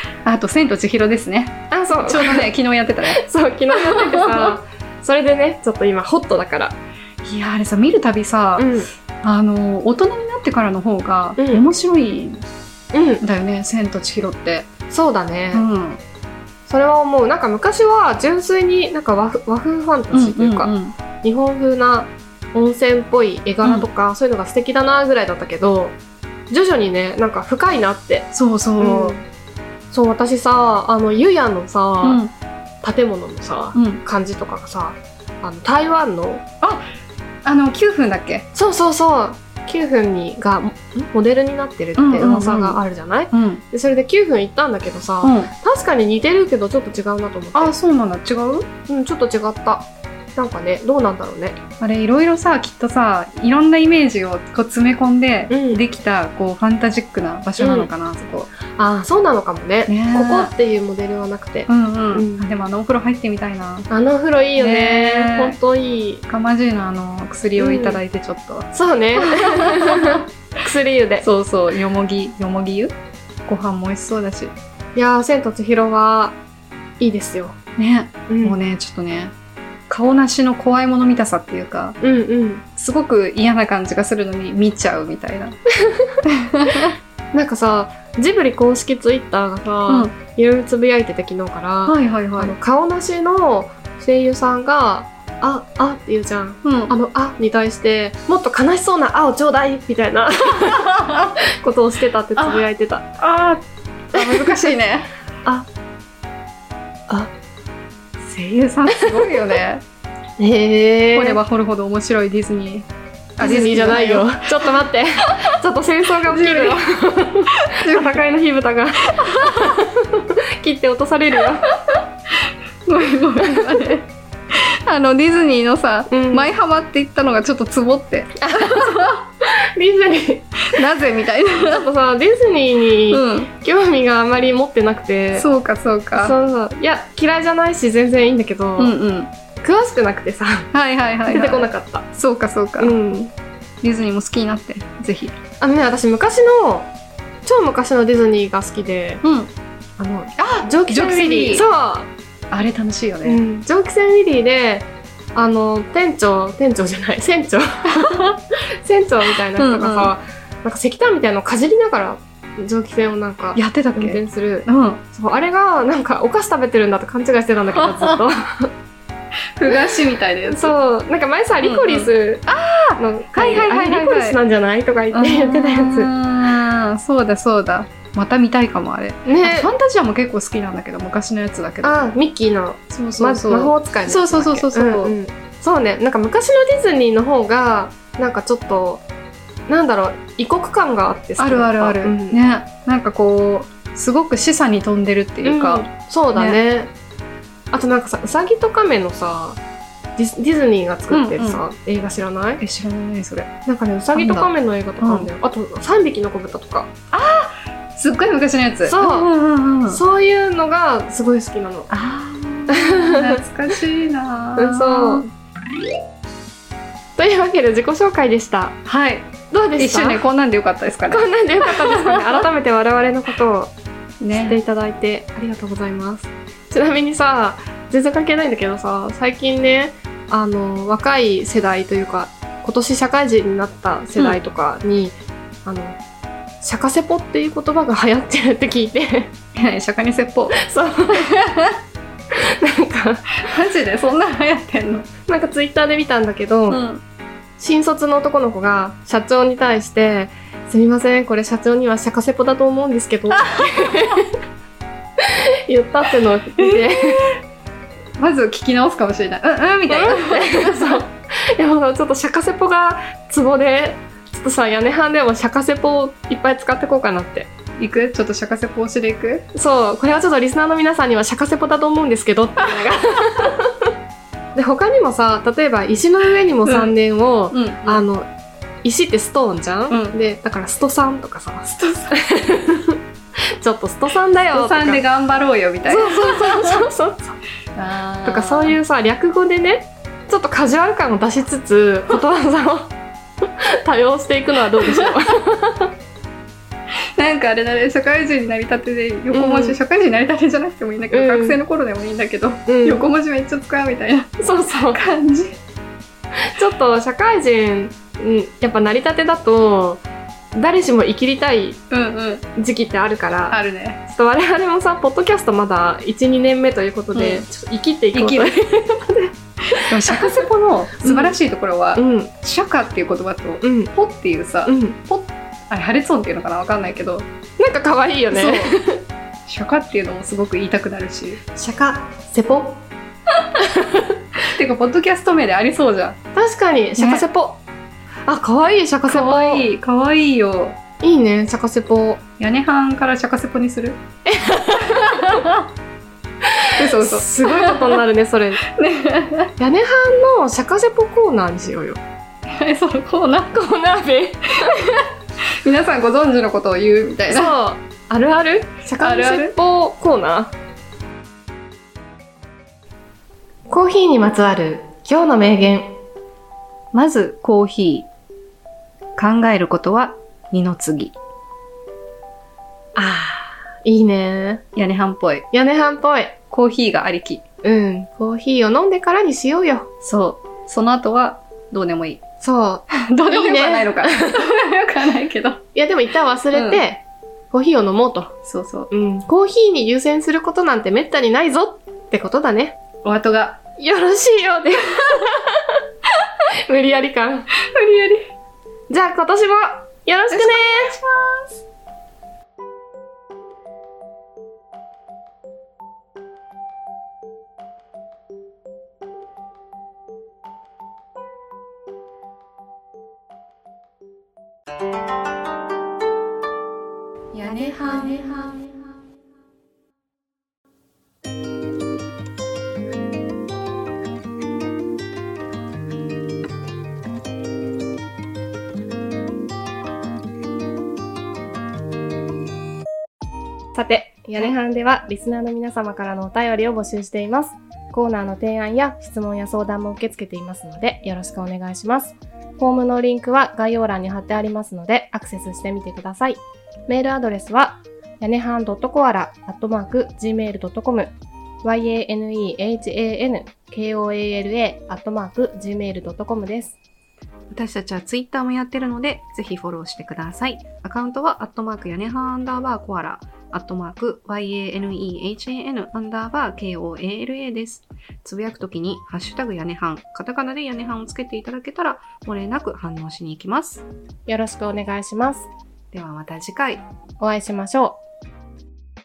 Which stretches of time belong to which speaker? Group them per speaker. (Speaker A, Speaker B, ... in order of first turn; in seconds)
Speaker A: 0.2-3.2, 3.7-4.5, 7.2-12.4, 13.2-14.7, 15.5-16.0, 20.1-20.9, 23.6-23.9, 28.3-29.2, 32.0-32.3, 33.7-34.0, 37.4-38.5, 42.0-42.8, 43.3-43.6, 45.2-45.5, 47.5-48.7, 51.8-58.5, 59.9-60.5, 61.7-63.9, 64.6-65.6, 66.3-70.2, 71.2-72.9, 73.5-74.5, 77.8-79.3, 79.9-82.0, 82.8-85.6, 86.2-87.0, 89.9-90.1, 91.8-92.5, 96.6-96.9, 100.5-101.4, 102.4-102.7, 103.2-105.1, 108.2-109.8, 111.1-112.9, 113.4-114.7, 116.3-116.8, 117.6-118.2, 119.2-119.8, 121.9-129.2, 130.7-131.9, 133.1-133.5, 135.3-136.3, 138.8-139.3, 140.7-142.9, 143.8-145.4, 149.2-149.5, 150.4-151.7, 152.5-153.4, 158.0-158.3, 159.6-160.1, 163.6-165.0, 167.8-168.2, 169.5-170.8, 171.6-174.4, 175.1-182.0, 182.9-185.1, 191.4-196.6, 201.1-201.6, 202.6-203.5, 204.1-204.5, 205.0-205.3, 207.1-210.0, 211.9-215.3, 218.8-222.4, 224.2-224.6, 239.5-240.6, 241.1-241.8, 243.4-245.1, 246.7-247.0, 253.3-254.2, 256.6-257.4, 258.2-261.0, 267.8-269.4, 272.8-273.5, 276.6-276.9, 277.5-278.1, 279.9-280.2, 281.8-282.1, 284.5-286.8, 287.8-288.8, 294.8-295.1, 297.1-305.6, 311.9-312.4, 313.5-314.0, 317.1-317.4, 318.1-318.6, 319.7-327.3, 328.3-328.8, 329.4-331.4, 334.5-336.2, 337.0-337.2, 339.1-340.8, 342.4-344.0, 344.9-345.7, 346.8-348.0, 348.6-349.5, 352.5-353.5, 354.6-355.1, 355.6-357.5, 359.0-359.5, 366.9-368.1, 369.1-371.1, 374.7-375.4, 376.5-377.4, 380.0-382.2, 382.9-385.6, 386.5-386.8, 388.4-388.9, 393.0-393.6, 397.6-398.3, 400.3-401.6, 417.3-418.6, 457.5-473.9, 475.9-476.8
Speaker B: 1.7-2.5, 3.0-6.8, 8.6-8.9, 11.4-11.6, 12.9-13.2, 14.9-15.7, 16.7-26.0, 26.5-29.2, 29.9-32.2, 32.8-36.4, 38.5-47.7, 48.9-51.6, 55.5-55.8, 57.6-57.9, 58.7-62.4, 63.9-66.2, 67.6-68.0, 68.7-71.2, 75.0-76.4, 77.0-77.6, 78.3-78.6, 82.0-82.6, 85.8-86.2, 87.3-103.1, 104.2-104.5, 108.9-109.4, 110.4-111.4, 113.4-121.7, 123.4-123.7, 126.1-126.5, 128.4-130.7, 131.6-135.5, 136.1-138.9, 139.6-140.7, 141.2-142.1, 142.8-143.3, 145.6-146.9, 147.4-149.2, 150.0-152.1, 153.2-168.7, 170.5-176.1, 179.2-179.7, 181.8-189.0, 189.7-192.4, 195.4-196.9, 197.7-199.6, 200.2-202.6, 203.7-206.9, 208.8-209.3, 209.9-211.9, 212.7-213.4, 214.6-215.2, 217.2-218.8, 219.5-220.2, 221.1-223.7, 224.3-236.0, 236.6-239.3, 240.5-241.3, 242.3-243.5, 245.3-246.8, 247.6-254.3, 255.2-257.3, 259.9-267.5, 269.5-273.9, 274.6-278.3, 278.8-283.0, 283.6-285.0, 285.9-287.4, 288.2-292.9, 293.6-295.9, 299.3-299.8, 301.1-301.6, 302.7-303.0, 304.4-305.0, 306.4-310.0, 310.5-311.8, 312.6-320.4, 321.0-321.4, 321.9-322.3, 323.6-323.9, 324.6-325.0, 327.6-329.0, 331.6-332.8, 333.6-334.2, 336.3-337.6, 338.3-339.6, 341.0-342.2, 344.2-345.5, 346.4-348.6, 349.6-352.0, 353.5-355.0, 357.3-360.5, 363.7-365.9, 372.9-374.6, 375.5-376.4, 377.6-379.9, 382.4-384.5, 385.7-388.3, 388.9-392.8, 393.8-395.8, 396.5-397.5, 398.9-400.9, 417.8-418.4, 433.7-456.8, 474.3-475.5, 477.2-478.0